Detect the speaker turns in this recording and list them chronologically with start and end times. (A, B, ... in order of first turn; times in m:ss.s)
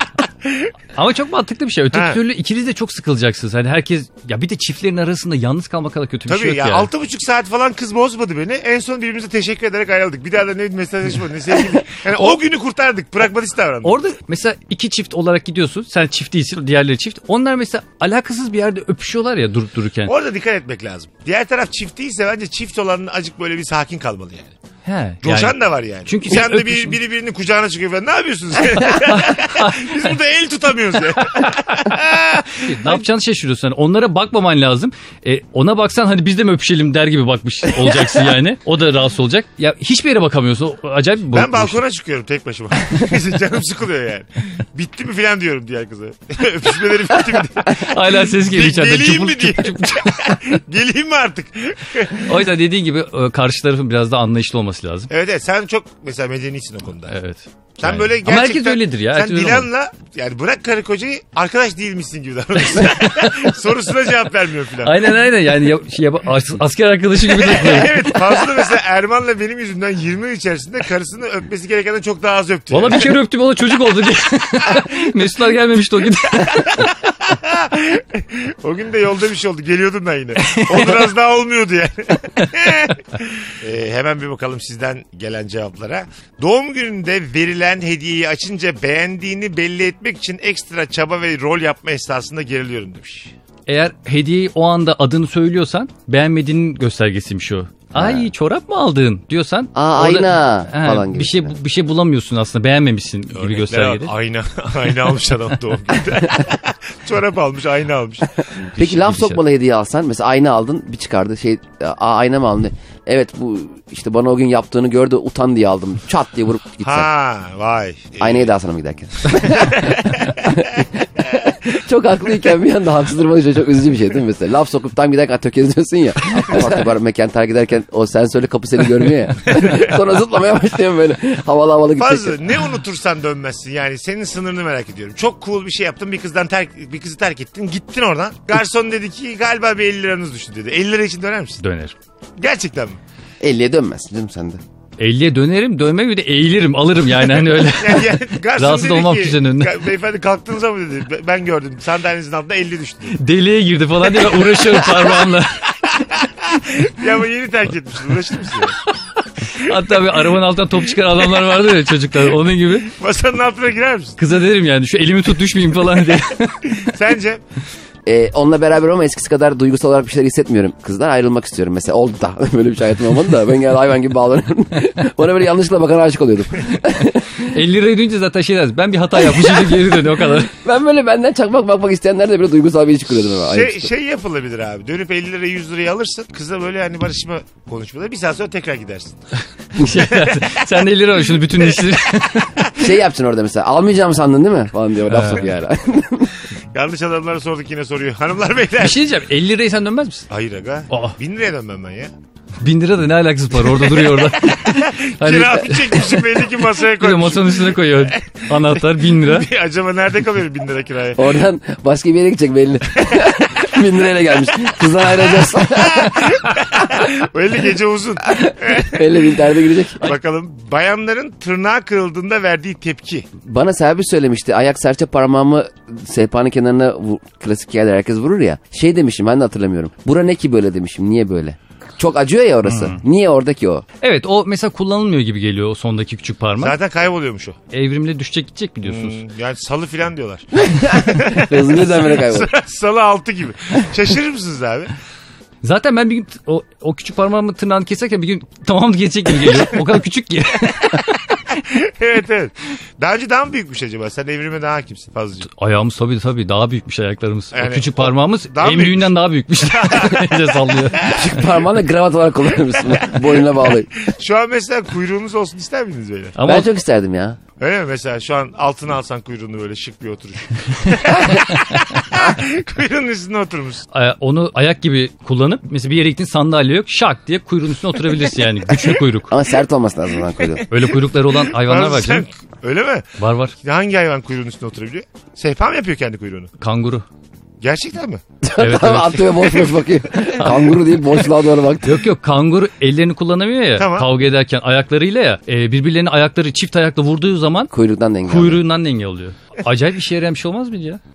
0:00.4-0:00.7 A
0:00.9-0:06.9 B
0:01.9-0:02.2 A
0:06.3-0:14.0 A
0:13.8-0:20.1 B
0:20.1-0:24.5 A
0:24.8-0:27.0 B
0:25.2-0:33.0 A
0:28.9-0:30.0 B
0:31.4-0:31.9 B
0:32.5-0:41.8 B
0:41.3-0:52.4 A
0:47.6-0:50.4 B
0:52.1-0:55.1 B
0:55.1-0:57.2 A
0:57.1-0:59.7 B
0:57.8-1:05.0 A
1:02.9-1:03.3 B
1:04.8-1:08.1 B
1:07.3-1:13.1 A
1:12.7-1:16.9 B
1:16.5-1:33.3 A
1:20.4-1:21.0 B
1:33.7-1:44.1 B
1:37.9-1:38.3 C
1:39.7-1:41.5 C
1:43.3-1:48.5 A
1:48.7-1:49.4 B
1:48.8-1:57.1 C
1:56.8-1:58.5 A
1:58.2-2:12.4 C
1:59.4-2:00.4 A
2:12.0-2:21.6 A
2:21.6-2:21.9 B
2:22.4-2:23.0 A
2:23.4-2:24.6 C
2:25.0-2:29.7 B
2:27.6-2:33.2 A
2:33.1-2:35.7 B
2:35.9-2:38.8 A
2:39.5-2:42.9 B
2:42.9-2:44.2 A
2:44.2-2:46.9 B
2:46.8-2:47.4 A
2:48.0-2:57.4 C
2:57.3-3:00.5 B
2:59.2-3:03.9 C
3:03.5-3:09.2 A
3:09.7-3:12.6 B
3:09.8-3:10.4 A
3:12.8-3:16.3 C
3:15.1-3:15.5 B
3:16.7-3:19.0 A
3:18.8-3:20.3 B
3:20.3-3:22.1 A
3:20.9-3:21.2 B
3:22.6-3:26.3 B
3:23.8-3:31.4 A
3:26.8-3:29.5 B
3:31.2-3:36.4 C
3:35.7-3:39.3 A
3:38.3-3:40.1 C
3:40.0-3:43.3 A
3:43.4-3:53.8 C
3:52.6-3:53.0 B
3:54.0-3:56.8 B
3:56.6-3:57.6 A
3:57.7-3:59.2 B
3:58.8-4:04.9 A
4:00.7-4:02.5 C
4:05.6-4:11.2 B
4:11.5-4:15.5 A
4:15.4-4:21.1 B
4:17.5-4:21.5 A
4:21.0-4:23.9 C
4:23.2-4:26.4 A
4:26.4-4:26.7 B
4:26.4-4:27.4 C
4:27.6-4:33.8 A
4:33.9-4:39.3 B
4:39.3-4:40.6 C
4:40.7-4:42.3 B
4:41.2-4:43.1 A
4:43.2-4:43.5 B
4:43.6-4:46.5 A
4:46.6-4:47.0 B
4:47.6-4:48.2 A
4:48.4-4:52.0 C
4:48.6-4:49.6 B
4:50.4-4:50.7 B
4:51.8-4:57.7 B
4:53.8-4:54.1 A
4:57.7-4:58.6 C
4:58.2-5:01.0 B